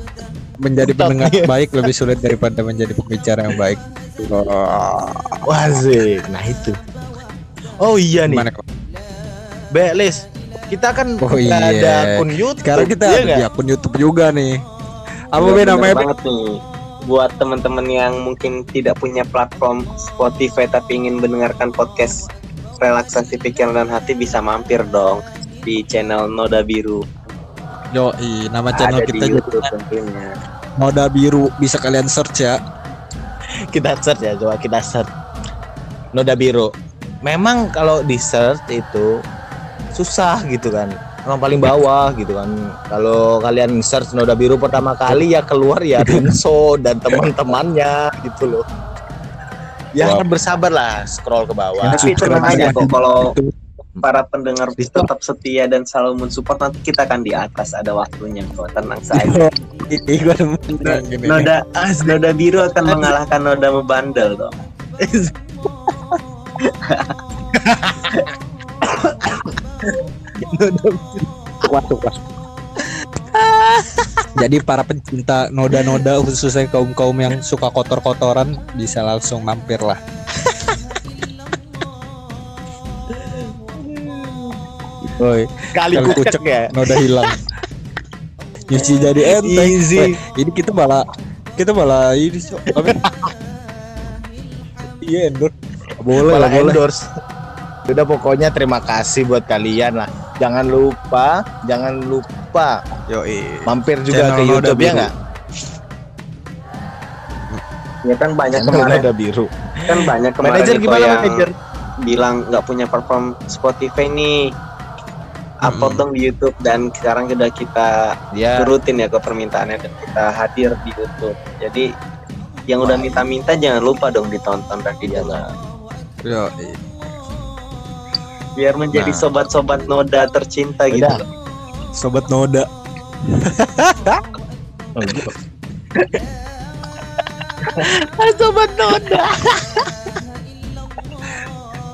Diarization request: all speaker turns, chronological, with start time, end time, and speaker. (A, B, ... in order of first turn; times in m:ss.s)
0:00.6-0:05.4 A
0:00.8-0:01.5 B
0:05.4-0:06.8 B
0:07.8-0:08.5 B
0:08.2-0:08.6 A
0:09.7-0:13.4 B
0:11.2-0:14.6 A
0:15.3-0:16.1 A
0:15.4-0:22.3 C
0:22.8-0:27.1 C
0:27.9-0:29.7 A
0:28.7-0:30.3 C
0:30.8-0:32.6 A
0:33.7-0:35.1 B
0:36.1-0:36.7 B
0:37.2-0:39.1 B
0:40.0-0:48.6 B
0:46.0-0:46.3 A
0:50.0-0:52.9 B
0:50.0-0:50.3 A
0:51.8-0:53.3 C
0:51.9-0:53.5 A
0:54.0-0:59.5 C
0:54.8-0:55.1 B
0:59.2-1:01.5 A
1:00.8-1:04.5 C
1:01.8-1:02.1 B
1:02.8-1:03.1 B
1:05.0-1:05.3 B
1:06.8-1:07.1 C
1:07.5-1:08.1 B
1:08.9-1:09.5 B
1:10.4-1:11.7 B
1:11.6-1:12.2 A
1:13.3-1:14.1 B
1:14.4-1:20.0 A
1:15.7-1:16.0 B
1:23.1-1:24.6 B
1:25.0-1:27.4 A
1:25.7-1:27.3 B
1:28.7-1:31.0 A
1:28.8-1:30.2 B
1:31.6-1:33.0 A
1:32.8-1:33.2 B
1:35.0-1:36.8 A
1:36.2-1:37.0 B
1:37.9-1:42.8 B
1:43.1-1:45.1 A
1:43.7-1:45.1 B
1:48.0-1:49.0 C
1:48.5-1:49.5 B
1:49.9-1:51.4 C
1:50.4-1:51.5 B
1:52.0-1:54.4 C
1:55.6-2:01.8 C
1:55.6-1:56.0 A
1:58.3-1:58.7 B
2:02.7-2:05.5 C
2:02.8-2:03.3 B
2:05.0-2:05.4 B
2:06.2-2:06.8 A
2:08.6-2:11.2 C
2:08.9-2:10.2 B
2:10.9-2:11.2 B
2:12.0-2:12.7 A
2:13.4-2:14.2 A
2:15.0-2:15.3 B
2:17.8-2:19.9 B